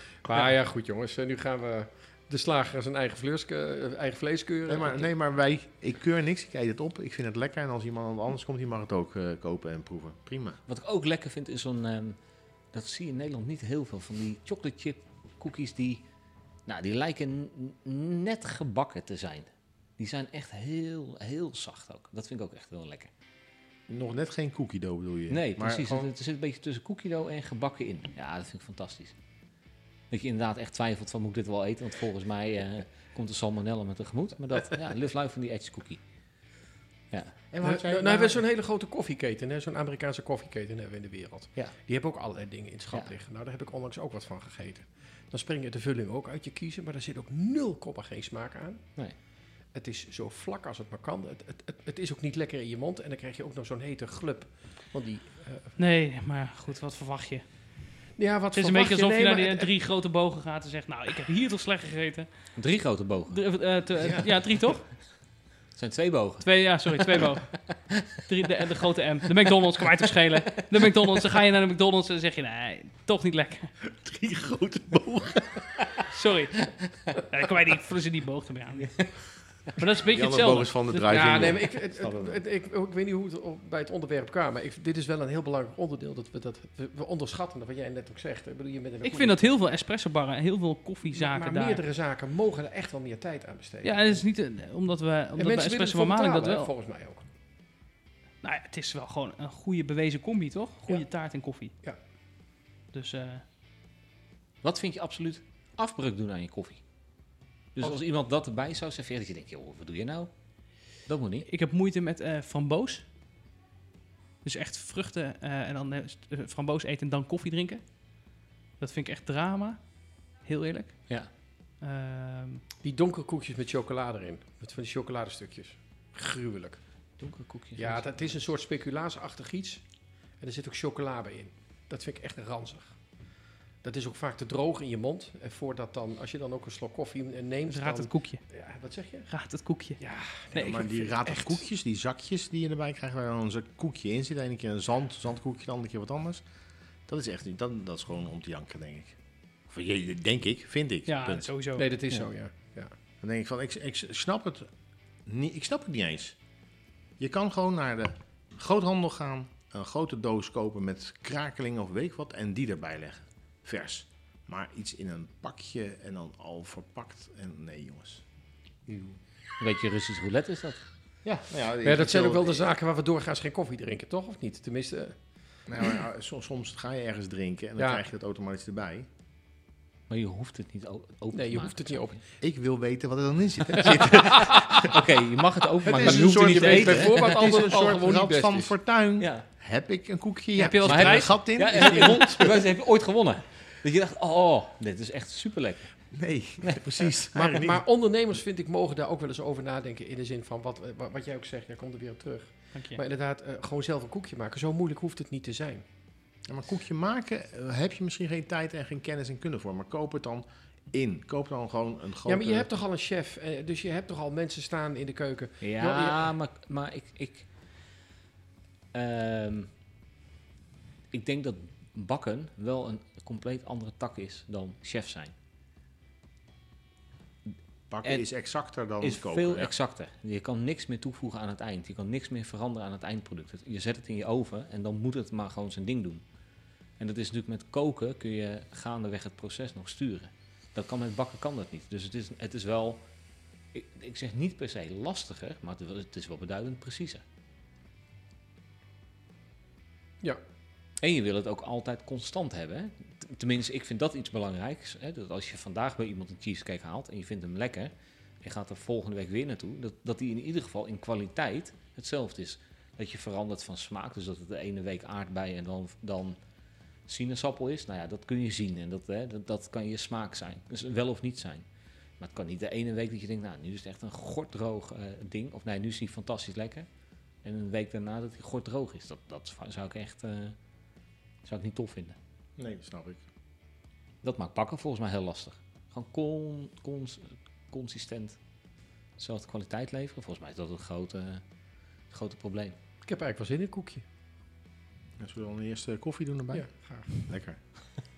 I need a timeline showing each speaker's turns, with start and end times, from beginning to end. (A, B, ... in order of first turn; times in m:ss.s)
0:00.2-0:05.1 A
0:04.7-0:10.6 B
0:10.7-0:12.2 C
0:12.7-0:16.0 C
0:16.7-0:23.1 C
0:23.9-0:26.1 B
0:25.3-0:29.2 C
0:30.1-0:36.0 C
0:37.5-0:38.4 B
0:37.6-0:48.9 A
0:49.7-0:55.7 A
0:55.8-0:57.5 D
0:58.2-0:59.7 A
0:58.5-1:02.3 D
1:02.6-1:03.4 C
1:03.3-1:04.9 D
1:04.0-1:04.4 B
1:05.8-1:08.0 C
1:06.4-1:07.6 D
1:08.3-1:13.7 D
1:10.5-1:11.1 C
1:13.8-1:15.6 B
1:16.1-1:19.2 D
1:19.7-1:21.7 D
1:20.0-1:22.4 B
1:21.1-1:29.5 A
1:29.0-1:31.8 D
1:31.1-1:34.2 A
1:33.8-1:36.7 D
1:35.4-1:37.2 A
1:38.4-1:41.7 D
1:42.9-1:43.4 D
1:44.6-1:46.8 C
1:47.8-1:50.3 C
1:51.1-1:51.5 C
1:51.5-1:53.0 D
1:54.4-1:57.8 D
1:58.8-1:59.8 D
2:00.4-2:01.2 D
2:01.8-2:02.6 D
2:02.8-2:06.8 A
2:07.2-2:08.3 C
2:07.8-2:09.8 A
2:10.4-2:13.0 A
2:13.8-2:19.3 A
2:17.7-2:18.4 D
2:19.3-2:20.0 D
2:20.0-2:21.6 A
2:20.5-2:26.4 B
2:27.1-2:29.2 B
2:29.7-2:31.5 B
2:31.1-2:31.9 D
2:31.8-2:32.9 A
2:33.2-2:34.7 B
2:35.3-2:36.4 B
2:37.2-2:48.2 B
2:48.9-2:49.2 B
2:49.6-2:50.8 C
2:51.2-2:52.7 B
2:51.8-2:55.2 A
2:55.7-2:59.1 B
2:57.8-2:58.0 A
3:00.1-3:02.2 C
3:01.3-3:02.2 A
3:02.4-3:05.0 B
3:04.0-3:07.5 C
3:04.1-3:04.8 A
3:05.8-3:12.7 B
3:05.9-3:08.7 A
3:09.2-3:09.4 C
3:10.6-3:11.3 A
3:10.6-3:12.0 D
3:10.8-3:15.9 C
3:16.1-3:17.8 B
3:16.6-3:16.9 C
3:17.3-3:25.8 A
3:26.5-3:32.7 B
3:32.2-3:36.3 A
3:35.6-3:37.5 C
3:38.9-3:39.7 C
3:41.1-3:45.3 C
3:47.9-3:49.7 B
3:49.0-3:56.2 C
3:57.0-4:03.0 C
4:03.7-4:07.2 C
4:11.0-4:26.4 C
4:27.1-4:31.6 C
4:32.2-4:36.9 C
4:37.4-4:40.6 C
4:41.4-4:42.2 C
4:42.6-4:43.2 B
4:44.2-4:48.4 C
4:49.2-4:51.4 C
4:52.1-4:52.8 C
4:53.0-4:54.0 A
4:55.2-4:57.6 B
4:56.5-4:57.1 A